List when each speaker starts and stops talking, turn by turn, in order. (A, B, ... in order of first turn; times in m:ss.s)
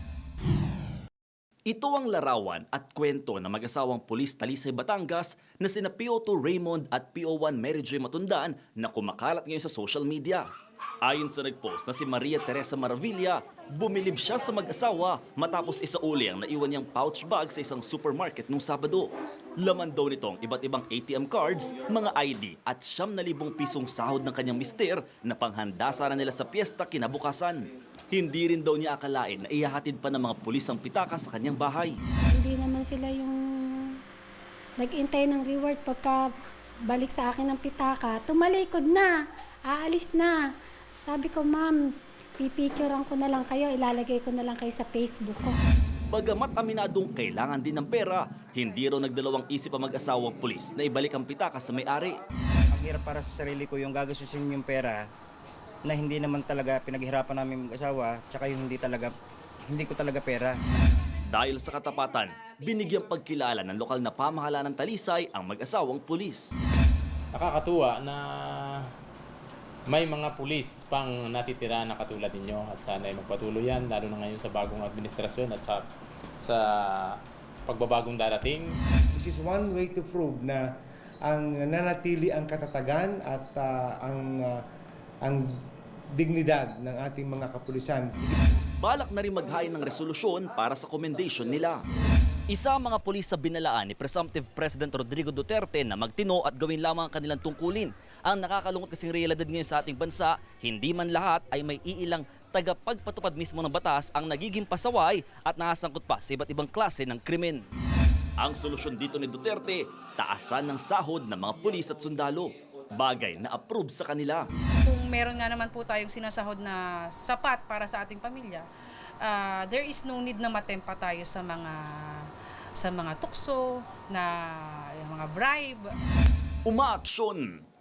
0:01.7-0:10.4 A
0:11.0-0:32.0 A
0:32.3-0:34.0 B
0:34.8-0:36.3 B
0:36.9-0:40.4 B
0:41.0-0:41.8 B
0:42.4-0:45.6 B
0:46.1-0:52.2 A
0:52.7-0:55.0 C
0:55.9-0:59.1 C
0:59.7-1:00.6 C
1:01.3-1:06.6 A
1:07.3-1:08.8 D
1:09.9-1:15.9 D
1:16.4-1:18.8 D
1:19.1-1:20.6 E
1:21.3-1:24.6 E
1:25.2-1:25.5 E
1:26.2-1:28.4 E
1:28.8-1:31.8 A
1:32.5-1:47.6 A
1:48.4-1:54.5 A
1:54.8-1:58.7 F
1:59.2-2:06.0 F
2:06.7-2:07.6 A